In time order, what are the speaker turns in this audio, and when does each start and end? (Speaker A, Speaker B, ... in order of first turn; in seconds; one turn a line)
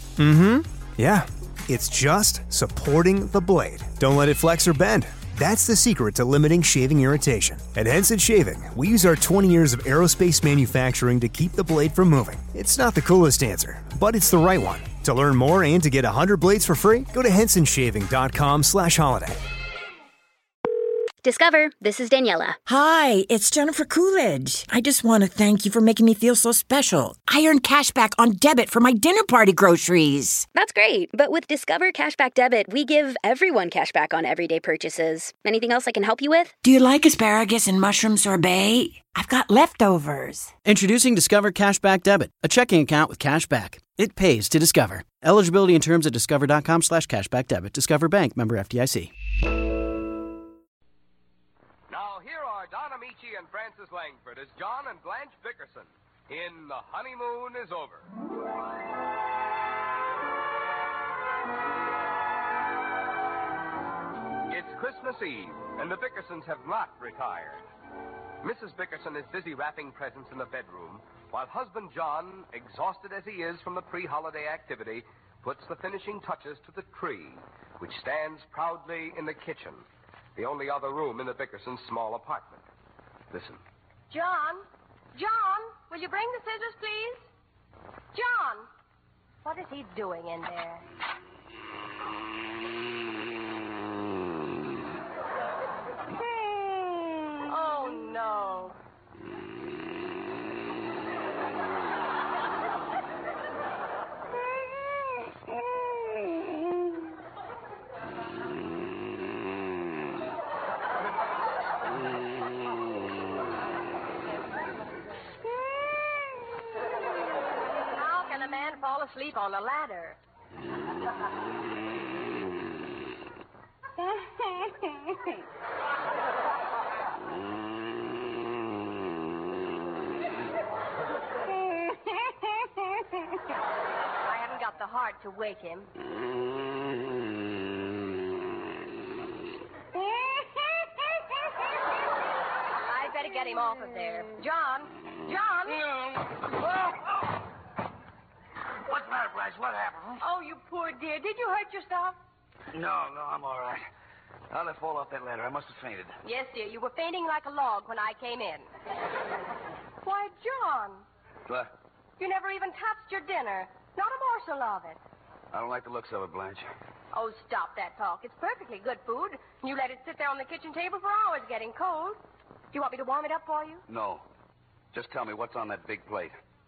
Speaker A: 0.2-19.3
Speaker B: 21.2-22.6
Speaker C: 22.7-30.4
Speaker B: 30.5-36.5
Speaker C: 36.6-40.5
Speaker D: 40.6-49.1
Speaker E: 51.9-58.1
Speaker E: 64.5-67.6
Speaker E: 68.4-79.8
Speaker E: 80.3-82.6
Speaker F: 83.3-83.6
Speaker G: 84.1-87.2
Speaker G: 88.1-88.7
Speaker G: 89.4-90.8
Speaker G: 97.4-98.8
Speaker G: 117.9-120.2
Speaker G: 134.2-135.9
Speaker G: 142.8-145.8
Speaker F: 145.8-147.1
Speaker F: 148.8-150.2
Speaker G: 150.2-152.2
Speaker F: 152.7-153.8
Speaker F: 154.5-156.1
Speaker G: 156.2-158.7
Speaker G: 160.0-161.0
Speaker G: 162.2-165.0
Speaker F: 165.5-166.6
Speaker G: 167.1-172.2
Speaker G: 172.7-173.8
Speaker F: 173.9-174.2
Speaker F: 174.9-176.3